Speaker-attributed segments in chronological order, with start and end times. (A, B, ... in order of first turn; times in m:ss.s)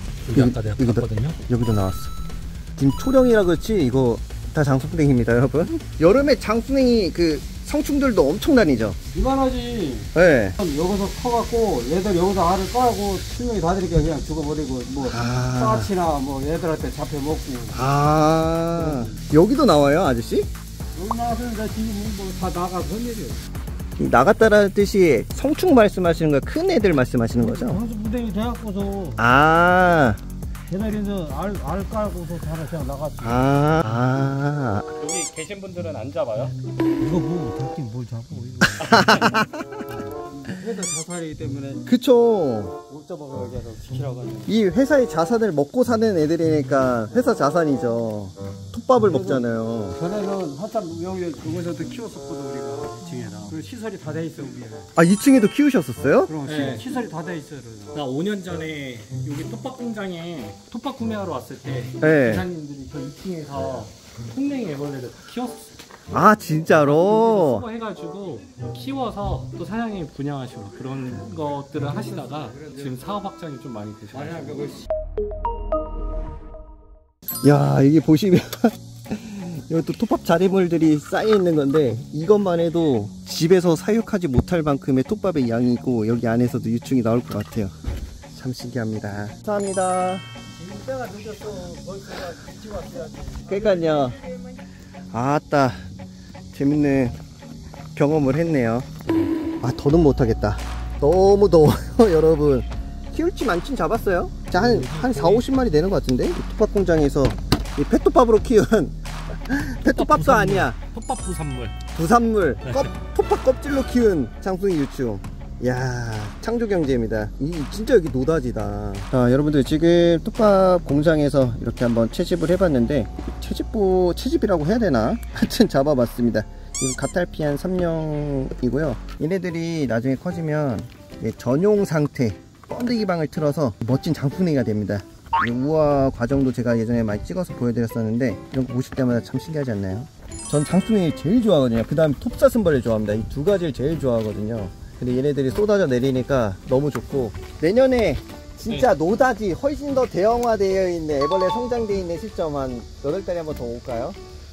0:00.2-0:01.4 A
0:00.3-0:02.1 B
0:02.8-0:09.0 B
0:09.1-0:17.8 C
0:10.1-0:10.6 B
0:15.0-0:15.9 B
0:17.7-0:20.5 B
0:18.9-0:19.1 C
0:20.9-0:23.4 C
0:24.0-0:27.8 B
0:27.4-0:29.2 C
0:29.2-0:30.2 B
0:30.7-0:33.4 C
0:33.2-0:34.9 B
0:35.0-0:36.6 A
0:37.0-0:39.3 C
0:38.8-0:39.8 B
0:38.8-0:39.4 A
0:40.3-0:41.9 C
0:41.8-0:42.7 B
0:42.9-0:44.5 C
0:44.4-0:50.0 B
0:49.0-0:54.9 C
0:55.0-0:56.3 B
0:56.2-0:58.0 C
0:56.4-0:56.8 A
0:57.9-1:05.8 A
1:02.0-1:02.5 B
1:06.1-1:07.7 B
1:06.7-1:14.8 A
1:17.4-1:27.7 B
1:28.3-1:30.2 B
1:30.6-1:33.9 C
1:33.4-1:34.2 B
1:35.1-1:35.8 B
1:36.5-1:37.2 B
1:37.9-1:38.9 B
1:39.6-1:50.8 B
1:44.5-1:45.5 A
1:49.8-1:51.8 A
1:51.9-2:34.2 B
1:52.6-1:52.9 A